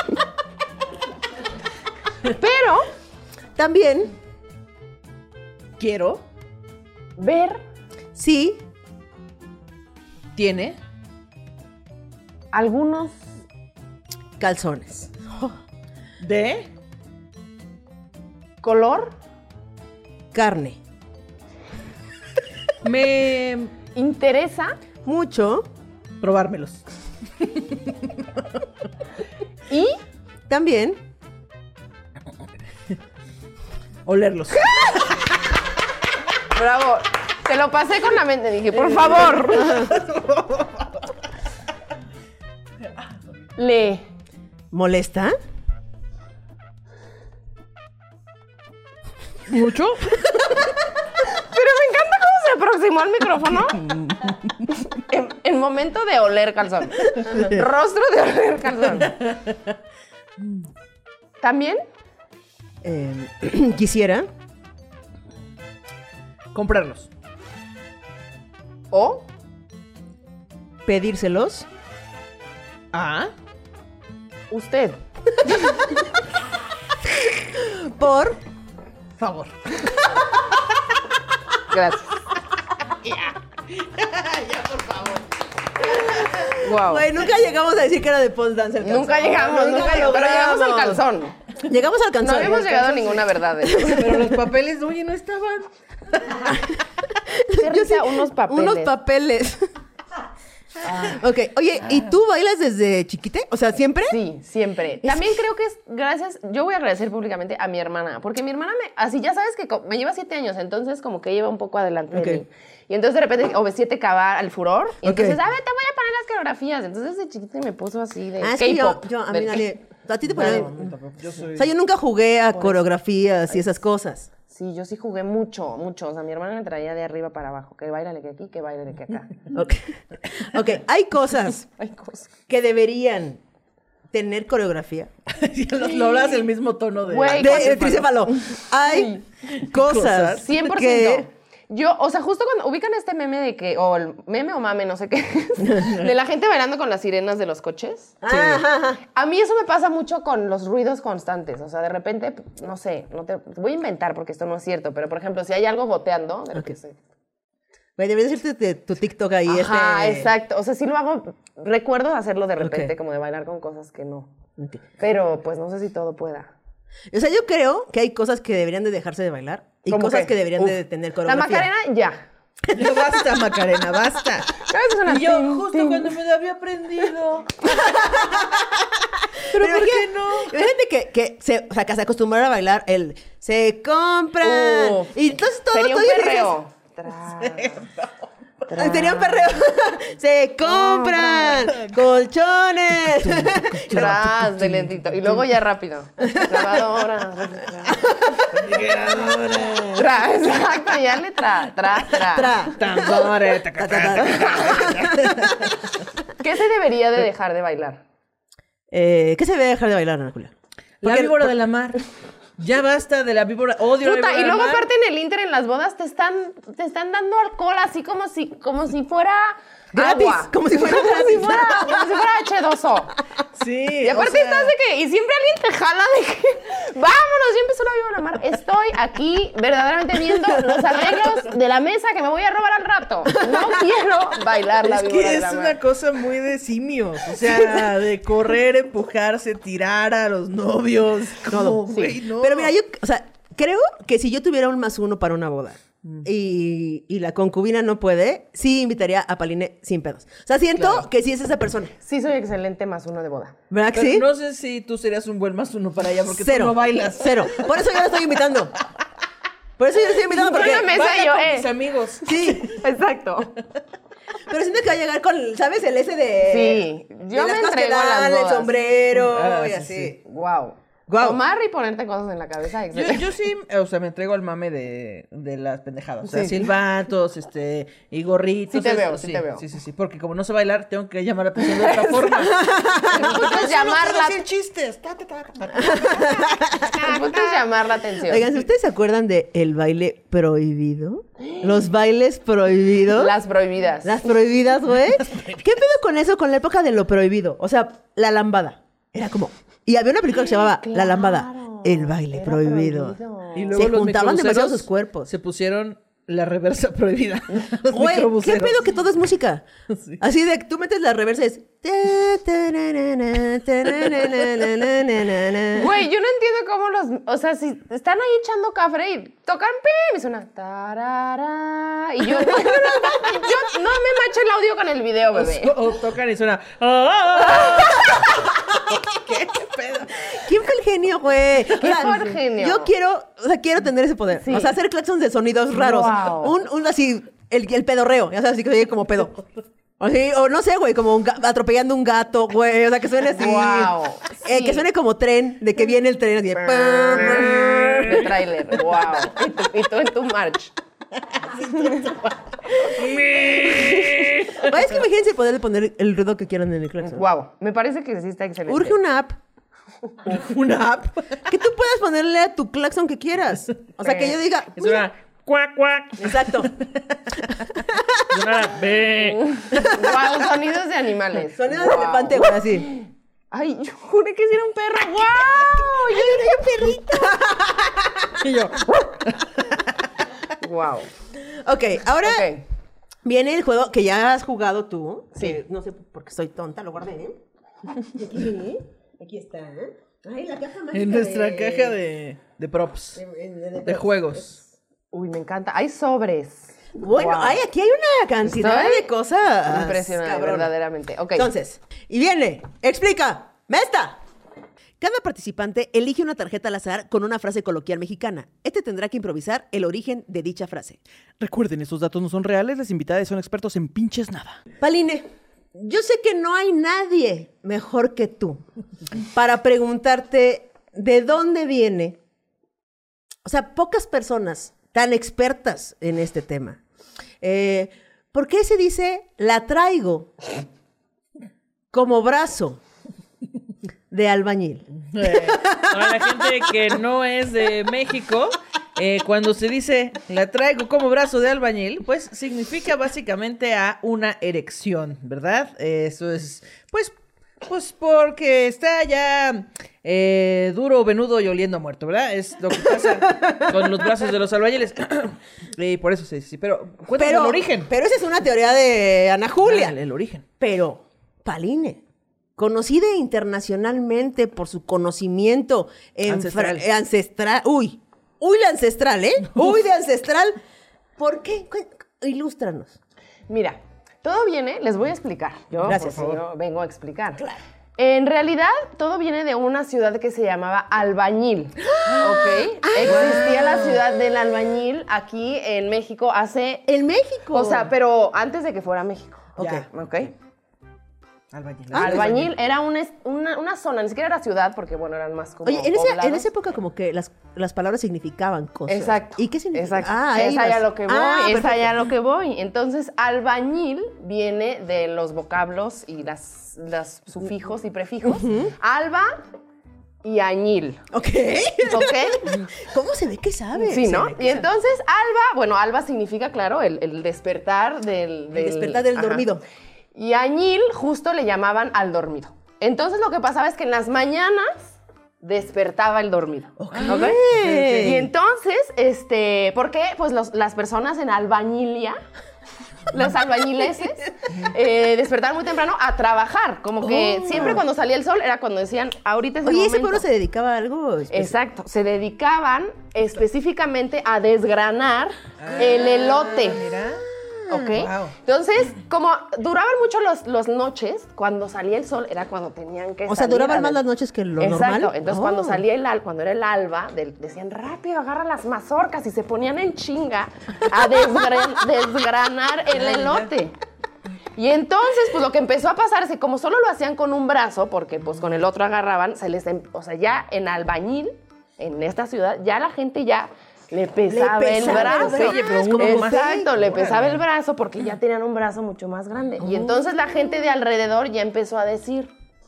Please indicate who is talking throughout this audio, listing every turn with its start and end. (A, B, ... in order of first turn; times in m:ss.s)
0:02.3-0:02.9 A
0:03.6-0:04.1 B
0:05.8-0:06.2 C
0:07.2-0:07.6 A
0:08.1-0:08.6 B
0:10.4-0:10.8 C
0:12.5-0:13.2 A
0:14.4-0:15.6 B
0:16.2-0:16.7 C
0:18.6-0:19.1 A
0:20.3-0:20.8 B
0:22.8-0:23.7 C
0:23.9-0:24.8 A
0:25.0-0:25.7 B
0:26.2-0:26.8 C
0:27.4-0:28.6 C
0:29.7-0:30.0 A
0:30.5-0:31.0 B
0:34.0-0:35.2 C
0:36.5-0:39.9 A
0:38.9-0:41.0 C
0:43.6-0:44.0 A
0:44.7-0:45.4 B
0:49.5-0:50.3 C
0:51.3-0:53.9 A
0:54.8-0:59.2 A
0:59.1-0:59.5 C
1:01.4-1:01.8 A
1:02.8-1:04.3 B
1:06.5-1:07.1 C
1:08.9-1:09.3 A
1:10.8-1:11.7 B
1:12.9-1:13.3 C
1:14.5-1:15.0 A
1:17.1-1:18.4 B
1:19.2-1:20.1 C
1:21.7-1:22.1 A
1:23.0-1:25.3 C
1:26.0-1:31.0 B
1:26.6-1:27.1 A
1:28.8-1:31.4 A
1:31.6-1:34.3 B
1:32.2-1:34.2 A
1:33.9-1:36.5 C
1:36.4-1:39.7 B
1:37.5-1:38.9 A
1:40.8-1:41.2 A
1:40.9-1:44.2 B
1:44.1-1:59.7 A
1:45.0-1:45.4 B
1:52.1-1:52.4 B
1:55.0-1:55.4 B
1:58.4-2:00.9 B
2:00.3-2:01.7 C
2:00.3-2:00.6 A
2:01.5-2:04.3 B
2:02.5-2:02.8 A
2:04.5-2:09.4 A
2:09.5-2:11.6 B
2:11.7-2:12.3 A
2:12.5-2:13.4 B
2:14.1-2:15.1 B
2:15.3-2:18.0 C
2:17.1-2:19.2 A
2:17.3-2:21.2 B
2:19.7-2:20.5 C
2:20.3-2:28.2 A
2:28.2-2:29.0 B
2:28.3-2:28.6 C
2:29.1-2:37.0 A
2:38.0-2:40.3 B
2:39.4-2:44.3 A
2:42.6-2:42.9 B
2:45.0-2:46.5 A
2:47.1-2:51.7 B
2:49.9-2:52.2 A
2:52.7-2:53.0 B
2:52.7-2:58.1 C
2:54.6-2:56.1 A
2:57.7-3:06.5 B
2:59.4-3:00.5 C
3:04.4-3:07.9 A
3:07.4-3:08.2 C
3:08.7-3:09.6 A
3:08.7-3:14.4 B
3:10.6-3:11.7 A
3:13.1-3:15.0 C
3:13.8-3:18.2 A
3:16.2-3:16.8 B
3:17.9-3:18.4 B
3:18.5-3:20.1 C
3:19.9-3:22.7 A
3:22.3-3:25.7 B
3:22.7-3:25.8 C
3:26.4-3:28.0 A
3:28.9-3:30.5 B
3:31.0-3:32.0 C
3:31.0-3:31.5 B
3:32.6-3:34.8 C
3:34.0-3:43.1 A
3:39.9-3:42.2 B
3:43.5-3:44.7 C
3:44.0-3:55.8 A
3:54.8-4:02.7 C
4:01.5-4:11.9 B
4:01.9-4:02.1 A
4:10.8-4:11.0 C
4:12.0-4:13.6 A
4:13.7-4:14.3 B
4:13.9-4:17.7 C
4:16.3-4:18.7 B
4:19.8-4:20.9 B
4:20.3-4:21.7 A
4:20.5-4:22.8 C
4:22.2-4:22.8 B
4:22.6-4:23.6 A
4:24.5-4:30.2 B
4:26.5-4:28.7 A
4:29.1-4:30.1 C
4:30.2-4:33.3 A
4:31.1-4:31.4 B
4:32.9-4:47.2 C
4:36.2-4:36.7 A
4:38.7-4:39.6 A
4:41.6-4:44.4 A
4:42.5-4:43.3 B
4:45.8-4:46.9 B
4:46.8-4:48.5 A
4:48.2-4:53.3 B
4:51.4-4:51.7 A
4:53.1-4:54.3 A
4:54.0-5:03.2 B
4:55.1-4:55.6 C
5:00.4-5:03.8 A
5:03.5-5:08.8 C
5:03.7-5:05.3 B
5:07.9-5:09.6 B
5:09.9-5:10.2 C
5:10.2-5:16.0 B
5:15.7-5:25.7 A
5:22.4-5:23.5 B
5:25.3-5:30.4 C
5:30.3-5:39.4 B
5:31.7-5:32.9 A
5:34.4-5:34.7 A
5:35.7-5:36.5 A
5:40.0-5:48.2 B
5:43.3-5:44.8 A
5:46.7-5:50.7 A
5:47.4-5:47.9 C
5:51.4-5:54.8 C
5:51.7-5:52.0 A
5:53.6-5:57.2 B
5:57.0-5:59.0 A
5:58.7-5:59.4 B
6:00.2-6:01.4 C
6:01.4-6:05.1 B
6:04.0-6:04.4 A
6:04.8-6:07.1 C
6:06.2-6:06.7 B
6:07.9-6:08.2 B
6:08.3-6:09.9 C
6:09.4-6:16.7 A
6:11.5-6:12.9 B
6:15.7-6:18.4 B
6:18.4-6:19.7 C
6:20.6-6:21.1 A
6:21.3-6:22.5 B
6:22.2-6:22.6 A
6:23.2-6:27.4 B
6:28.0-6:32.0 B
6:30.9-6:33.2 C
6:33.1-6:34.6 B
6:33.8-6:34.6 C
6:35.1-6:37.6 A
6:37.0-6:40.7 B
6:38.4-6:39.1 A
6:39.6-6:41.5 A
6:41.3-6:44.2 B
6:45.0-6:51.0 B
6:51.4-6:54.6 C
6:54.8-6:58.6 B
6:59.2-7:02.2 B
7:03.4-7:06.8 B
7:07.4-7:10.3 B
7:11.9-7:12.8 B
7:14.1-7:16.5 B
7:15.1-7:27.1 C
7:27.6-7:37.9 C
7:33.3-7:33.8 B
7:37.2-7:40.0 B
7:39.6-7:40.4 C
7:40.6-7:42.0 B
7:42.6-7:50.6 B
7:46.3-7:46.8 C
7:51.2-7:53.0 B
7:53.5-8:06.8 A
7:55.8-7:56.4 B
8:01.8-8:03.6 B
8:02.0-8:02.4 C
8:03.0-8:04.0 C
8:06.9-8:07.9 B
8:07.5-8:10.3 A
8:09.6-8:09.8 B
8:09.6-8:09.8 C
8:11.5-8:12.5 C
8:11.9-8:12.4 B
8:12.0-8:16.5 A
8:15.6-8:21.9 B
8:18.9-8:29.4 A
8:28.2-8:28.7 B
8:30.2-8:31.0 A
8:31.1-8:34.7 B
8:31.8-8:32.6 A
8:33.8-8:39.5 A
8:38.5-8:39.6 B
8:40.1-8:47.4 A
8:46.8-8:48.2 C
8:46.9-8:48.3 B
8:47.9-8:52.2 A
8:53.1-9:00.2 A
8:57.0-8:57.8 B
8:59.6-9:01.5 B
9:01.3-9:06.8 A
9:05.6-9:08.3 C
9:07.7-9:14.0 A
9:13.3-9:15.8 B
9:14.6-9:23.7 A
9:22.9-9:23.5 C
9:24.5-9:42.3 A
9:34.3-9:36.7 B
9:34.8-9:37.4 C
9:39.6-9:40.0 B